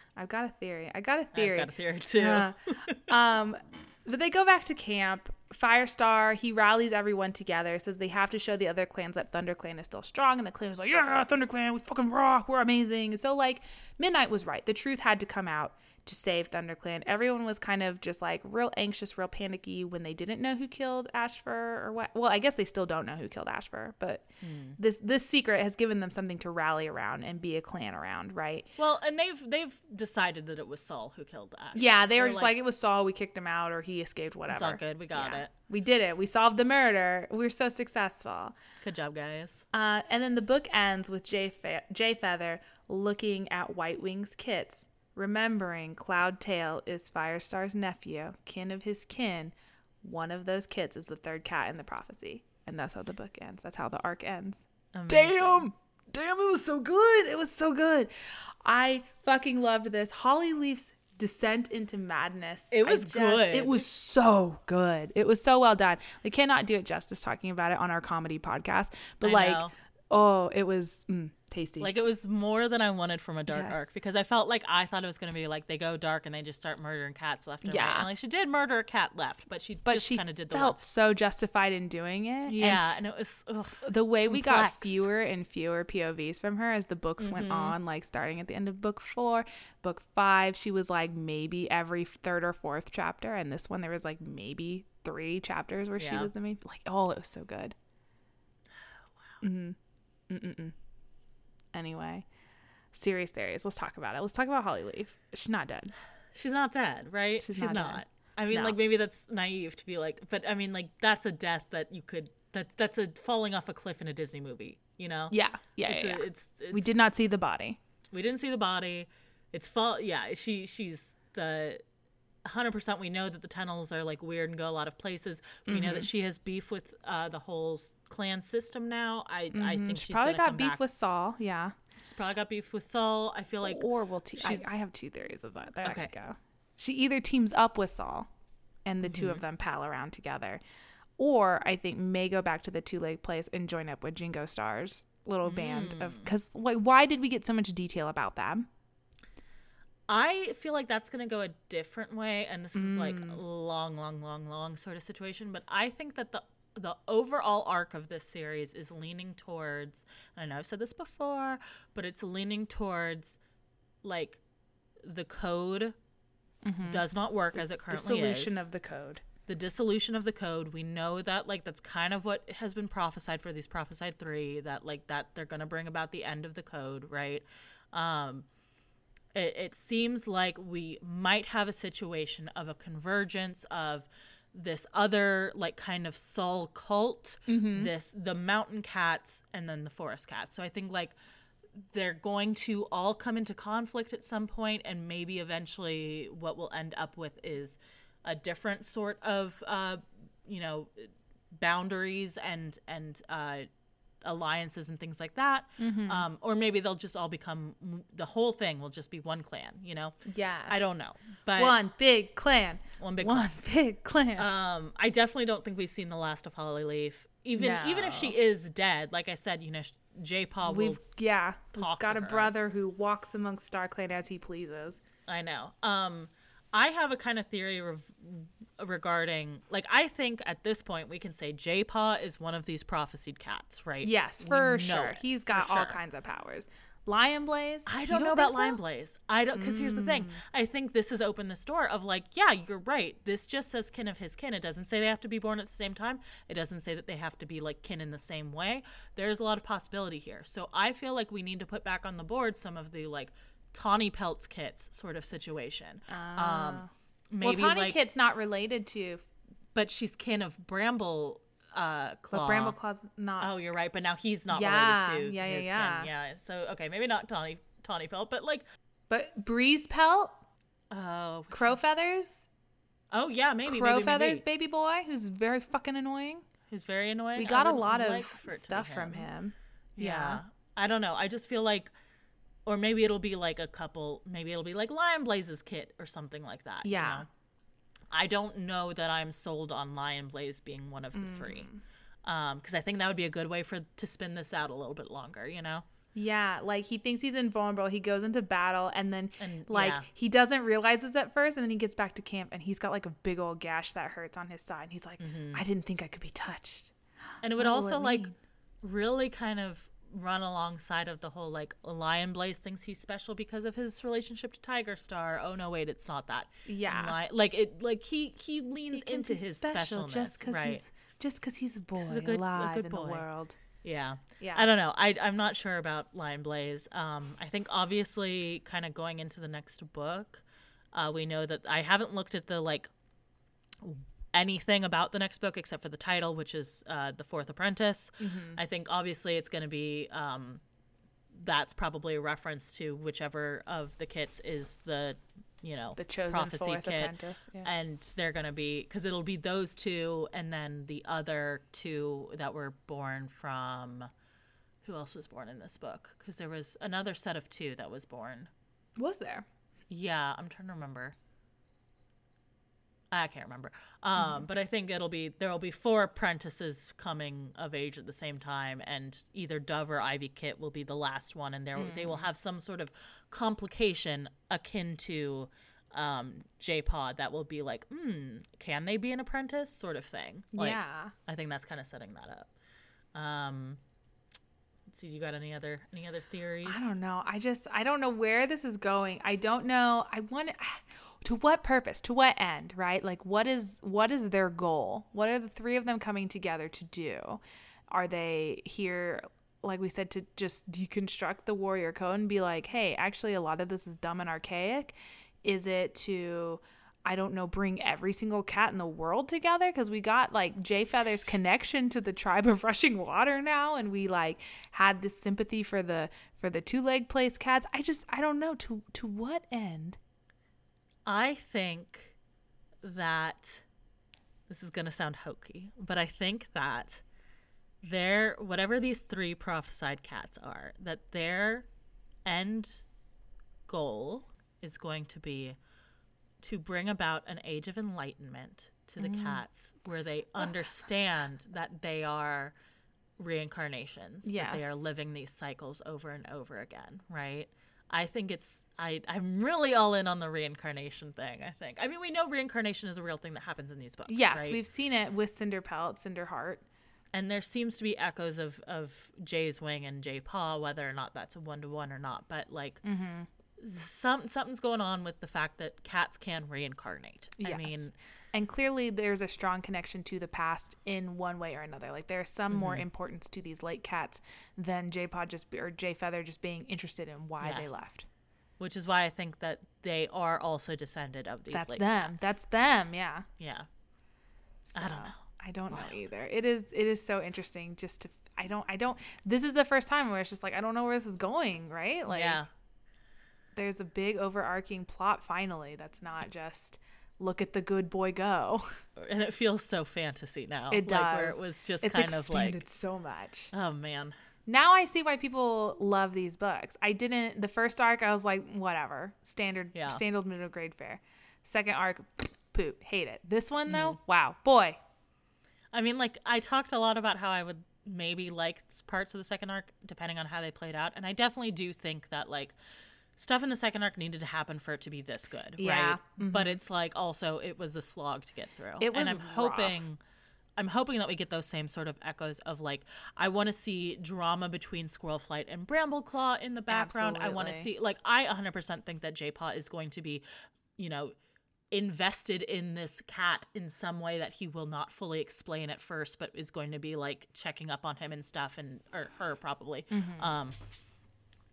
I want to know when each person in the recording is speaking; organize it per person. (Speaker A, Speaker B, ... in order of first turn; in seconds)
Speaker A: 0.1-24.2, 24.8-28.7, 31.7-38.5, 39.7-58.1, 58.6-71.9, 73.5-73.8, 77.6-78.1, 79.8-82.8, 83.8-97.7, 99.4-99.8, 100.3-100.7, 101.7-102.2, 102.9-105.9, 107.4-108.8, 115.3-117.8, 125.7-126.1, 129.5-131.7, 133.6-138.3, 138.8-140.6, 141.2-148.7, 152.7-153.4, 166.6-169.2, 187.5-187.9, 205.8-206.3, 210.2-211.0, 211.5-214.5, 217.6-218.3, 220.6-225.0, 234.0-238.8, 239.5-240.4, 256.1-259.2, 262.3-263.5, 264.5-266.1, 269.1-270.3, 271.5-272.5, 273.6-276.4, 277.4-280.4, 286.8-287.2, 291.1-291.8, 296.1-306.9, 307.5-308.3, 316.6-317.2, 318.9-323.6, 324.4-324.7, 338.2-338.6, 346.0-347.7, 359.0-359.5, 364.1-364.4, 371.8-372.3, 380.5-381.1, 386.6-420.0, 439.0-439.4, 444.2-444.9, 454.1-456.6, 462.8-463.3, 467.4-478.1, 481.5-483.3, 484.7-492.4, 493.6-498.8, 500.7-503.5, 504.4-514.8, 525.6-526.6, 528.8-529.8, 536.7-537.7, 549.9-550.3
Speaker B: 1.3-3.0, 24.4-24.8, 28.8-32.5, 34.5-35.5, 38.8-39.6, 54.9-55.7, 62.7-63.8, 69.2-69.7, 71.8-80.8, 82.5-85.1, 87.2-87.8, 96.0-96.3, 106.3-117.0, 118.1-121.8, 122.4-130.8, 132.0-134.7, 135.8-136.1, 139.0-139.4, 145.4-146.3, 150.1-163.4, 164.0-164.4, 165.0-165.9, 166.8-168.6, 169.5-178.5, 179.3-191.1, 191.7-203.7, 204.2-211.8, 213.0-213.5, 214.3-221.0, 221.7-222.5, 225.3-236.0, 237.8-258.0, 259.7-262.8, 263.4-268.6, 270.9-271.8, 273.1-274.4, 276.7-279.3, 279.9-281.9, 282.6-287.3, 288.1-291.7, 292.2-295.9, 299.4-300.1, 305.2-305.6, 307.4-308.3, 308.8-320.8, 322.0-323.2, 323.8-332.9, 333.8-340.6, 341.3-354.1, 354.8-358.5, 359.9-361.1, 363.1-382.5, 383.1-383.8, 384.9-386.9, 421.0-422.1, 422.8-423.6, 424.5-427.0, 427.8-431.7, 432.2-432.8, 433.7-435.6, 436.4-442.5, 443.2-454.6, 457.1-462.8, 463.6-467.9, 472.5-472.9, 477.4-477.8, 478.6-482.3, 483.4-483.7, 484.7-485.2, 485.7-486.0, 492.1-492.5, 498.9-502.6, 503.5-504.1, 509.7-510.0, 513.7-514.0, 515.7-522.5, 523.1-530.0, 530.6-540.2, 540.8-541.1, 541.7-550.6